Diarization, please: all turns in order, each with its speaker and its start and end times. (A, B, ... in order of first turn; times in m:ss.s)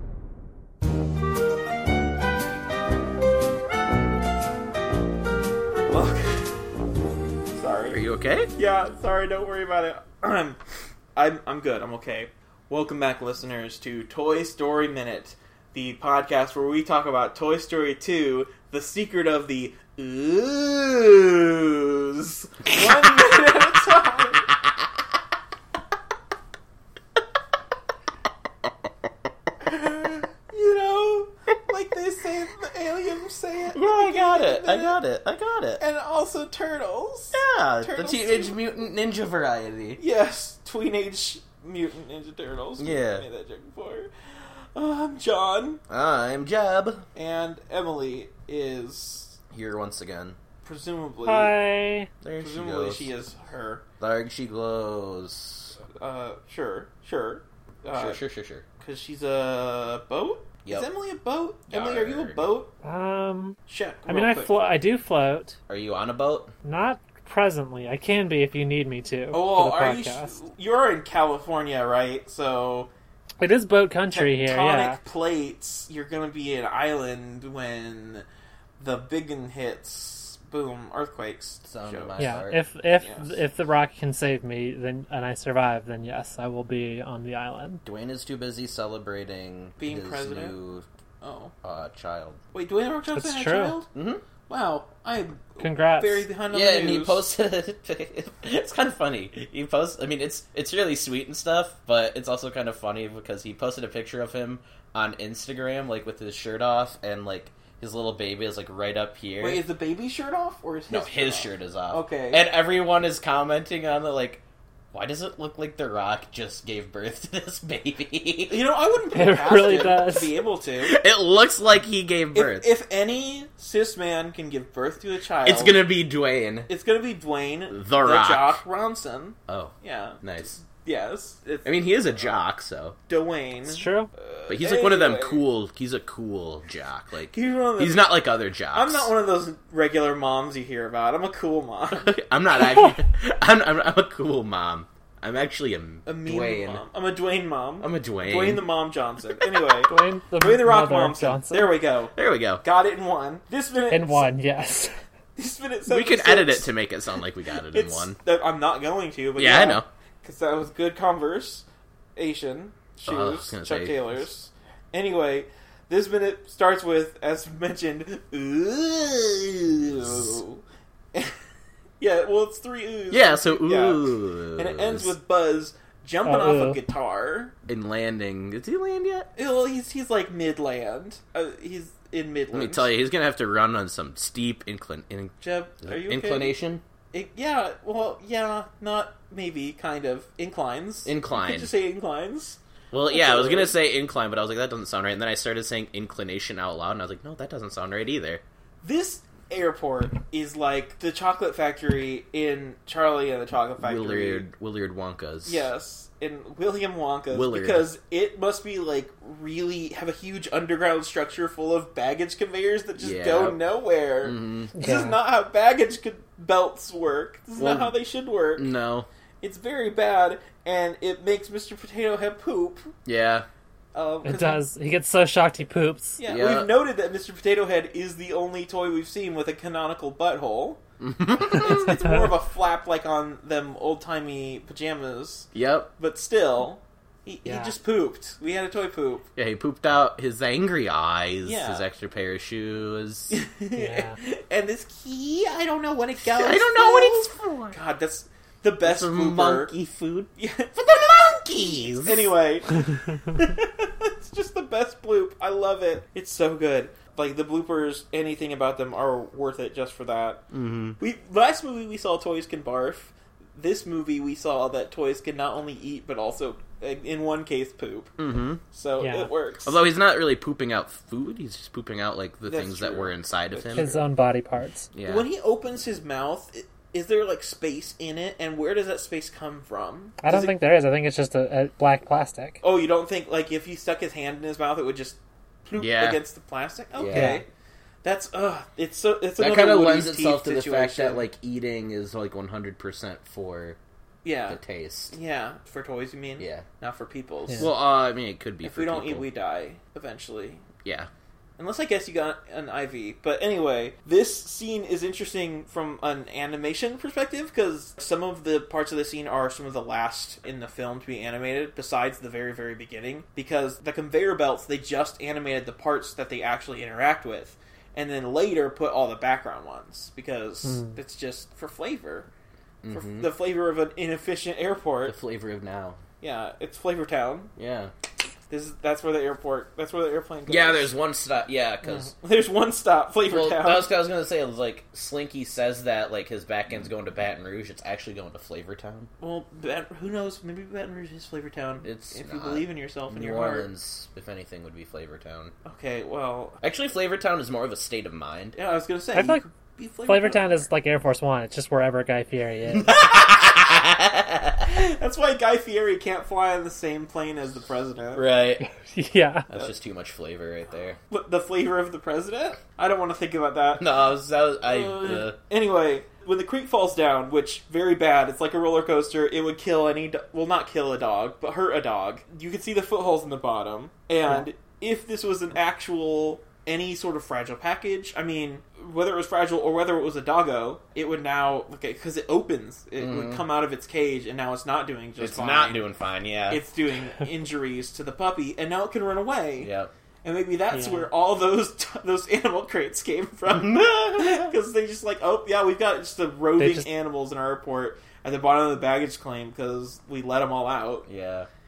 0:05.9-0:06.6 A
0:07.5-0:08.0 A
0:07.9-0:08.5 B
0:08.5-0:10.6 A
0:11.2-0:24.5 A
0:29.6-0:35.0 A
0:33.7-0:35.8 B
0:35.8-0:38.6 A
0:37.3-0:40.0 B
0:40.0-0:45.8 A
0:42.8-0:43.2 B
0:45.9-0:47.0 B
0:47.1-0:49.4 A
0:49.5-0:50.4 B
0:50.6-0:51.6 A
0:51.2-0:52.1 C
0:52.2-0:53.1 B
0:52.4-0:53.8 A
0:54.0-0:55.7 B
0:55.9-0:58.2 A
0:57.9-0:58.6 B
0:58.8-1:02.7 A
1:01.7-1:02.4 B
1:02.8-1:05.6 C
1:03.7-1:04.5 A
1:05.7-1:06.5 B
1:06.6-1:10.4 C
1:09.3-1:12.9 A
1:13.4-1:15.0 C
1:14.1-1:18.2 A
1:18.8-1:22.4 A
1:21.6-1:22.6 B
1:22.2-1:27.8 C
1:23.0-1:23.3 A
1:27.8-1:30.8 B
1:29.8-1:30.6 A
1:31.2-1:31.5 A
1:31.6-1:32.4 B
1:32.5-1:33.9 A
1:33.1-1:33.8 C
1:33.9-1:34.2 B
1:34.5-1:37.2 A
1:35.6-1:36.2 C
1:36.5-1:49.6 B
1:49.4-1:52.4 A
1:50.9-1:58.6 B
1:58.5-2:01.0 A
1:59.1-2:00.3 C
2:00.8-2:02.7 B
2:02.3-2:05.8 A
2:05.4-2:06.7 B
2:06.7-2:12.3 A
2:07.7-2:08.6 B
2:09.5-2:10.6 B
2:11.6-2:13.0 B
2:13.1-2:15.4 A
2:13.7-2:14.1 C
2:14.5-2:19.1 B
2:17.3-2:18.2 A
2:18.7-2:22.1 A
2:21.9-2:26.8 B
2:26.0-2:34.3 A
2:27.8-2:28.7 B
2:29.8-2:31.7 C
2:32.1-2:32.6 B
2:33.9-2:34.9 C
2:35.4-2:36.7 A
2:35.8-2:38.2 B
2:37.7-2:41.6 A
2:39.4-2:39.9 B
2:42.2-2:50.6 A
2:43.0-2:44.2 B
2:52.0-2:57.5 A
2:53.1-2:55.1 B
2:56.2-2:56.8 C
2:57.6-2:59.3 B
2:59.4-3:02.9 A
3:02.5-3:06.8 B
3:05.4-3:06.6 A
3:07.1-3:13.7 A
3:11.0-3:11.7 B
3:12.9-3:18.4 B
3:18.8-3:24.4 A
3:23.8-3:25.6 B
3:25.4-3:38.7 A
3:27.3-3:27.9 B
3:33.0-3:33.6 B
3:34.2-3:34.7 B
3:34.8-3:35.2 C
3:37.6-3:38.0 B
3:38.6-3:39.1 B
3:39.4-3:42.9 A
3:43.0-3:43.4 B
3:43.9-3:44.6 A
3:44.2-3:46.2 C
3:46.2-3:50.8 A
3:46.2-3:46.7 B
3:51.0-3:52.1 B
3:51.5-3:59.3 A
3:55.5-3:55.9 B
3:57.4-3:57.7 C
3:59.4-4:03.4 B
4:01.4-4:01.8 A
4:03.3-4:09.7 A
4:03.7-4:04.2 C
4:06.2-4:07.8 B
4:08.8-4:12.3 B
4:10.4-4:20.4 A
4:20.5-4:21.0 B
4:21.0-4:28.1 A
4:28.2-4:28.6 B
4:28.7-4:29.7 A
4:29.0-4:29.3 C
4:29.6-4:33.9 B
4:32.4-4:34.0 A
4:33.7-4:34.9 C
4:34.9-4:35.2 B
4:35.0-4:40.5 A
4:40.2-4:42.6 C
4:42.6-4:47.4 A
4:45.8-4:46.2 B
4:46.9-4:47.4 B
4:47.1-4:47.4 C
4:48.0-4:51.2 A
4:49.4-4:53.8 B
4:54.2-4:57.7 A
4:54.5-4:55.1 B
4:56.4-4:56.6 B
4:57.6-4:59.2 B
4:58.6-5:00.6 A
5:00.8-5:01.1 B
5:01.6-5:22.3 A
5:22.8-5:23.3 B
5:22.9-5:25.2 A
5:25.0-5:26.0 B
5:26.2-5:27.5 A
5:27.6-5:27.9 B
5:28.5-5:30.9 A
5:30.5-5:32.1 B
5:31.8-5:33.9 A
5:33.3-5:39.1 B
5:39.2-5:43.7 A
5:41.8-5:45.5 B
5:45.6-5:46.6 A
5:46.6-5:48.6 B
5:48.5-5:50.7 A
5:49.1-5:49.4 C
5:50.0-5:53.0 C
5:52.7-5:54.7 B
5:54.6-5:58.3 A
5:58.1-5:58.7 B
5:58.7-5:59.5 C
5:59.5-6:01.0 B
6:01.1-6:03.9 A
6:03.8-6:05.4 B
6:04.6-6:25.9 A
6:23.0-6:23.4 B
6:25.2-6:26.6 B
6:26.5-6:29.7 A
6:29.6-6:29.9 B
6:30.2-6:41.1 A
6:30.7-6:31.1 C
6:33.5-6:34.5 B
6:36.6-6:36.9 C
6:41.0-6:41.5 B